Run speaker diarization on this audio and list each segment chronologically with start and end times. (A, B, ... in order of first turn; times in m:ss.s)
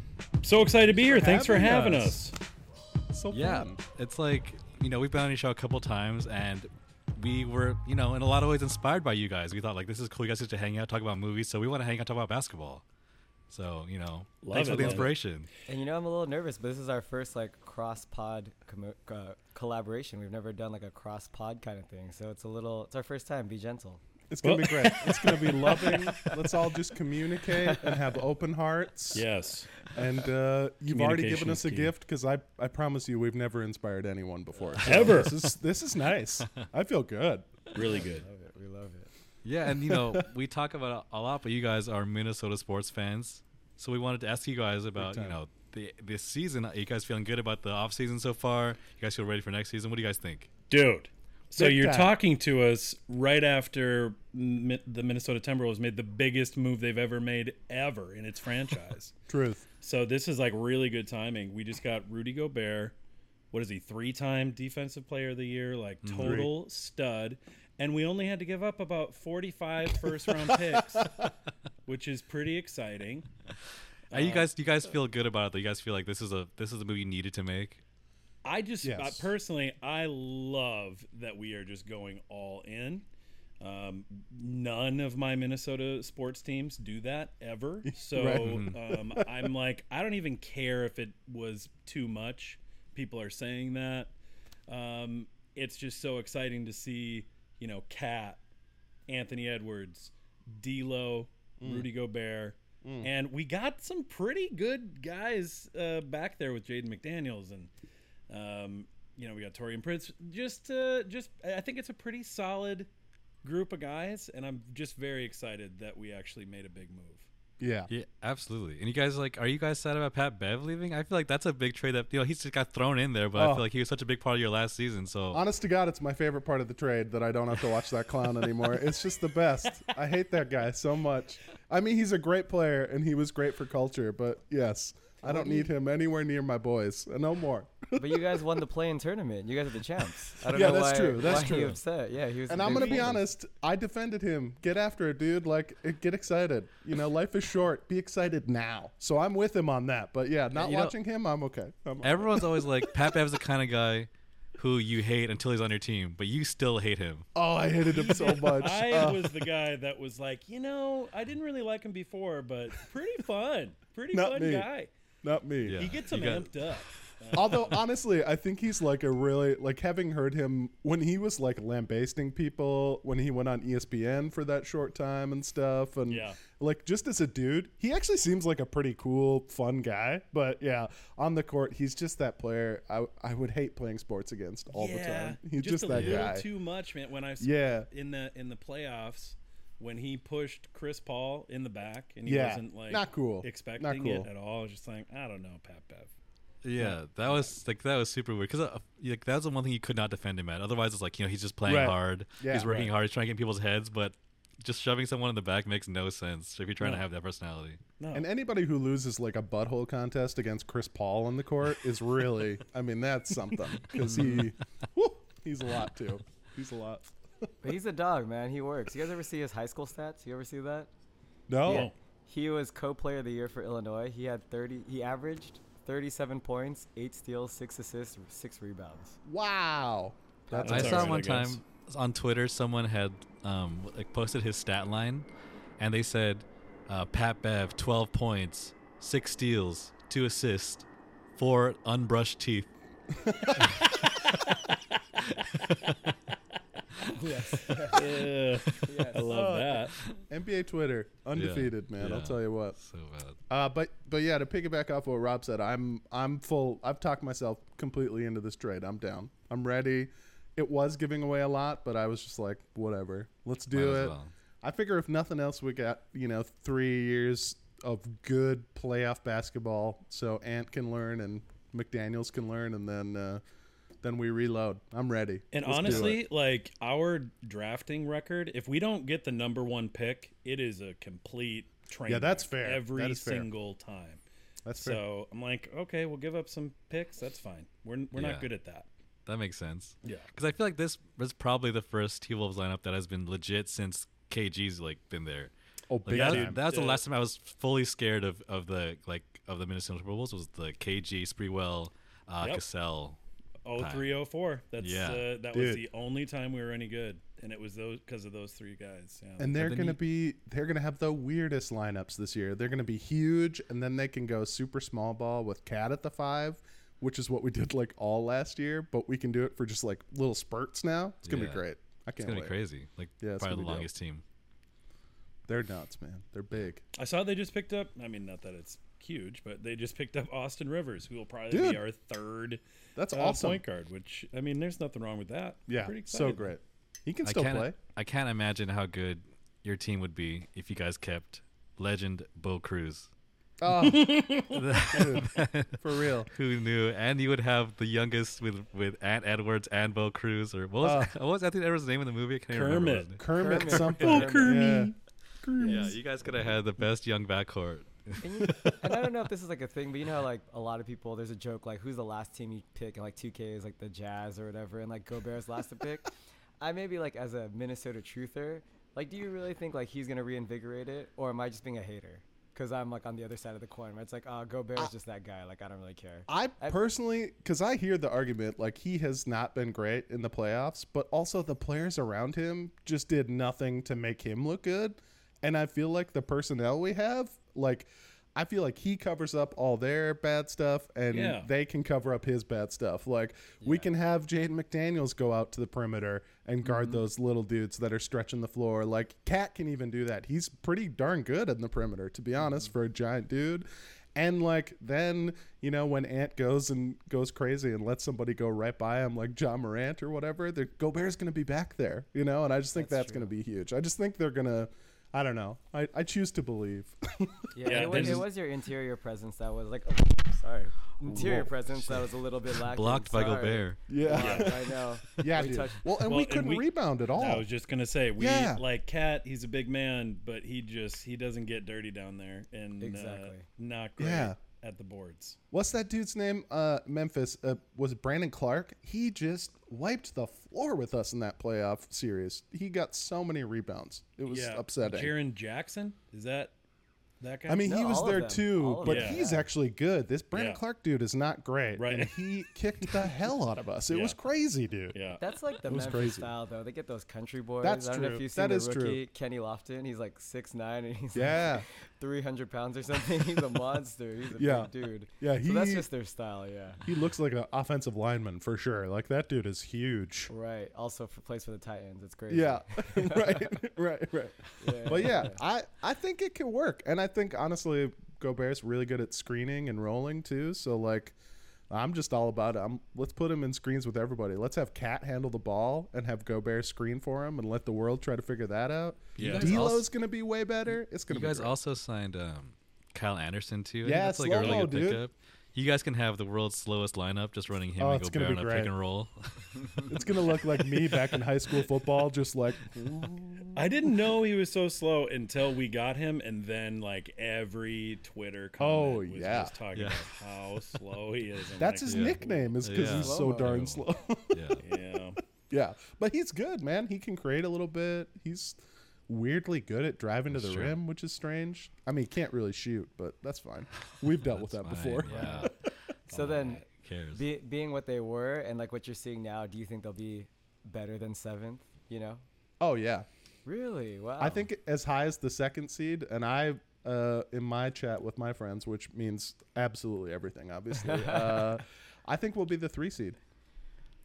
0:00.4-0:02.3 A
0:00.9-0:02.2 B
0:03.1-0:03.8 B
0:03.3-0:12.8 C
0:13.5-0:15.5 C
0:14.4-0:15.1 A
0:14.5-0:15.1 B
0:15.7-0:24.0 D
0:24.3-0:29.2 B
0:24.4-0:26.2 A
0:29.1-0:29.9 A
0:29.9-0:37.7 B
0:30.9-0:31.9 A
0:34.8-0:35.5 A
0:37.7-0:38.2 A
0:37.8-0:39.1 D
0:39.4-0:50.5 C
0:39.8-0:40.3 B
0:44.9-0:45.4 B
0:50.7-0:59.1 A
0:51.5-0:52.2 B
0:59.3-0:59.7 B
0:59.8-1:02.9 A
1:03.5-1:11.3 A
1:06.0-1:06.4 C
1:06.2-1:06.5 B
1:10.7-1:11.3 B
1:11.8-1:13.3 A
1:14.1-1:14.5 A
1:14.1-1:17.8 C
1:18.4-1:23.0 A
1:18.8-1:19.3 B
1:23.6-1:34.1 A
1:28.0-1:29.3 B
1:28.4-1:28.7 C
1:34.7-1:38.4 A
1:39.1-1:47.7 A
1:41.6-1:41.9 B
1:42.8-1:43.1 B
1:48.3-1:52.9 A
1:53.4-1:57.2 A
1:57.6-1:57.9 B
1:57.9-2:05.4 C
2:03.3-2:03.7 B
2:05.3-2:18.6 B
2:15.2-2:15.7 D
2:17.9-2:23.2 D
2:20.4-2:21.8 B
2:22.5-2:33.2 B
2:22.7-2:23.1 A
2:30.5-2:30.9 C
2:32.0-2:37.3 C
2:37.3-2:39.5 B
2:37.8-2:44.9 A
2:44.1-2:44.7 B
2:45.2-2:46.0 B
2:45.6-2:46.5 C
2:45.7-2:47.8 A
2:47.3-3:06.5 B
2:56.1-2:56.4 A
3:04.7-3:16.1 A
3:05.9-3:06.3 C
3:07.4-3:07.9 B
3:12.2-3:14.3 B
3:16.6-3:27.8 C
3:21.6-3:22.7 B
3:22.5-3:22.9 A
3:28.0-3:28.2 A
3:28.1-3:37.1 B
3:33.9-3:34.5 C
3:37.6-3:40.9 D
3:41.5-3:41.9 B
3:41.6-3:41.9 A
3:41.6-3:49.2 D
3:49.2-3:51.2 B
3:50.5-3:50.9 D
3:50.6-3:51.6 A
3:50.6-3:55.3 C
3:55.8-4:00.8 C
4:01.4-4:02.7 C
4:03.2-4:03.5 B
4:03.5-4:04.0 C
4:07.0-4:08.1 D
4:07.8-4:08.2 B
4:07.9-4:10.0 A
4:08.8-4:09.4 D
4:09.2-4:12.8 B
4:11.3-4:13.4 C
4:13.5-4:33.4 B
4:23.7-4:24.3 C
4:34.0-4:36.2 B
4:35.5-4:44.2 A
4:35.8-4:36.2 C
4:42.1-4:43.5 B
4:44.6-4:45.0 B
4:44.8-4:48.9 A
4:48.1-4:48.5 C
4:49.2-4:55.5 C
4:50.0-4:50.3 A
4:55.9-4:56.6 B
4:56.0-5:03.2 C
4:56.1-4:57.0 A
5:03.6-5:09.8 A
5:03.8-5:04.1 C
5:04.8-5:05.3 C
5:05.5-5:05.8 B
5:09.4-5:22.6 B
5:09.6-5:10.0 C
5:21.2-5:21.6 C
5:22.2-5:24.2 C
5:23.2-5:23.9 B
5:25.5-5:26.8 B
5:26.9-5:36.5 A
5:31.5-5:31.8 B
5:33.0-5:33.6 B
5:35.7-5:37.8 B
5:37.2-5:43.1 C
5:43.6-5:46.3 B
5:43.8-5:44.7 A
5:44.5-5:53.2 C
5:50.8-5:51.1 B
5:52.5-5:54.9 A
5:53.1-5:55.9 B
5:53.3-5:54.6 D
5:55.6-5:58.4 C
5:58.2-6:16.8 D
5:58.4-5:58.9 B
6:16.3-6:58.2 B
6:31.1-6:31.5 A
6:33.6-6:33.9 D
6:52.8-6:53.3 D
6:57.5-7:05.9 D
6:57.6-6:58.3 A
7:01.0-7:01.8 B
7:02.5-7:03.8 C
7:03.9-7:07.4 B
7:04.1-7:04.6 A
7:06.0-7:15.4 A
7:08.2-7:08.6 B
7:12.8-7:13.4 D
7:14.0-7:14.4 B
7:15.5-7:25.1 B
7:24.2-7:26.5 A
7:27.2-7:27.8 A
7:27.5-7:35.0 B
7:27.6-7:29.5 D
7:28.8-7:29.2 A
7:30.3-7:30.6 A
7:31.8-7:32.3 A
7:32.8-7:33.1 A
7:33.9-7:34.2 A
7:34.9-7:35.2 A
7:35.2-7:46.8 D
7:35.6-7:36.3 B
7:37.6-7:39.0 B
7:41.1-7:41.6 B
7:44.4-7:45.9 B
7:46.8-7:50.3 B
7:50.3-7:53.5 D
7:52.3-8:01.2 B
7:54.6-7:55.4 D
8:01.7-8:11.6 B
8:09.2-8:09.7 A
8:09.2-8:09.9 C
8:11.1-8:20.9 C
8:13.8-8:15.0 B
8:14.3-8:14.7 A
8:17.8-8:18.7 B
8:19.8-8:24.1 B
8:23.5-8:32.5 A
8:28.6-8:29.6 B
8:29.7-8:30.0 C
8:31.6-8:34.6 B
8:31.8-8:34.6 C
8:32.8-8:33.6 D
8:34.6-8:35.2 A
8:35.5-8:45.5 B
8:40.3-8:40.8 C
8:44.1-8:45.5 C
8:45.0-8:45.5 A
8:46.1-8:52.2 D
8:46.1-8:46.6 A
8:46.6-8:47.2 C
8:52.6-8:53.1 B
8:53.4-8:54.5 D
8:54.2-9:03.2 B
9:00.7-9:01.6 D